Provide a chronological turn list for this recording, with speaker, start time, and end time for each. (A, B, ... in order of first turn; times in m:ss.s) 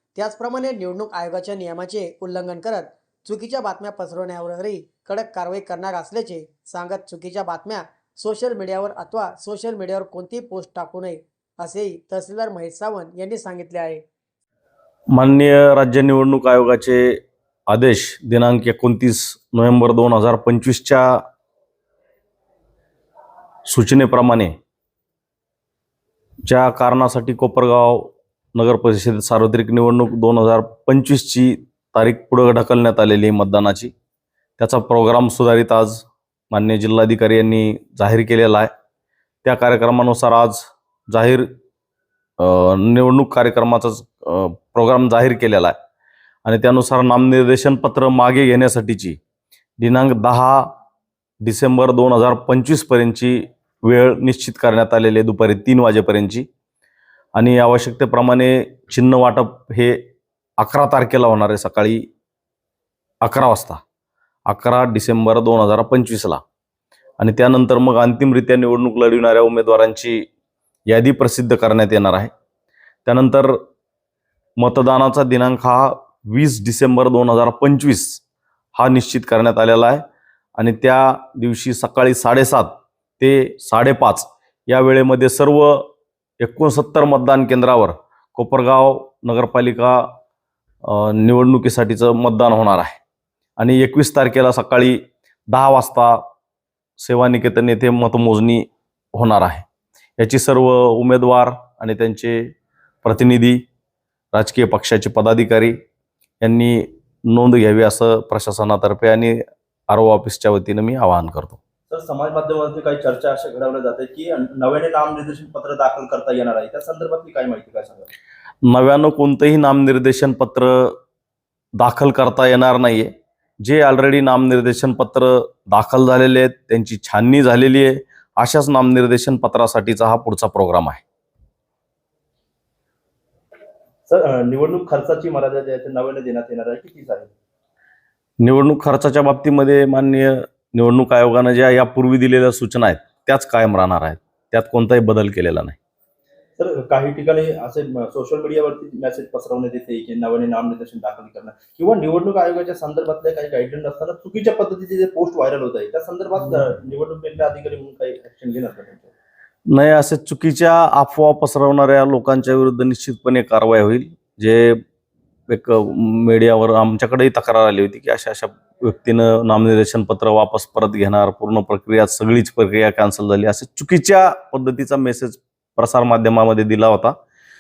0:00.2-0:14.0 A
0:15.1-0:21.2 B
0:23.7-0:24.5 B
0:26.5-0:33.9 B
0:34.6-0:38.7 B
0:39.4-0:41.5 B
0:42.4-0:45.8 B
0:46.4-0:49.2 B
0:49.8-0:50.7 B
0:51.4-0:56.5 B
0:57.4-1:00.0 B
1:00.6-1:02.1 B
1:03.2-1:03.8 B
1:04.5-1:06.4 B
1:07.2-1:10.3 B
1:10.9-1:12.3 B
1:13.0-1:13.6 B
1:14.6-1:18.2 B
1:18.8-1:20.0 B
1:20.6-1:25.9 B
1:26.4-1:30.2 B
1:30.8-1:33.0 B
1:33.6-1:35.0 B
1:35.5-1:36.2 B
1:37.0-1:39.7 B
1:40.2-1:42.5 B
1:43.0-1:43.6 B
1:44.3-1:45.8 B
1:46.4-1:49.4 B
1:49.9-1:51.6 B
1:51.9-1:58.1 C
1:58.7-2:01.0 B
2:01.8-2:11.0 B
2:14.1-2:17.3 C
2:18.4-2:25.8 B
2:26.6-2:39.1 C
2:39.7-2:44.8 B
2:45.5-2:57.2 B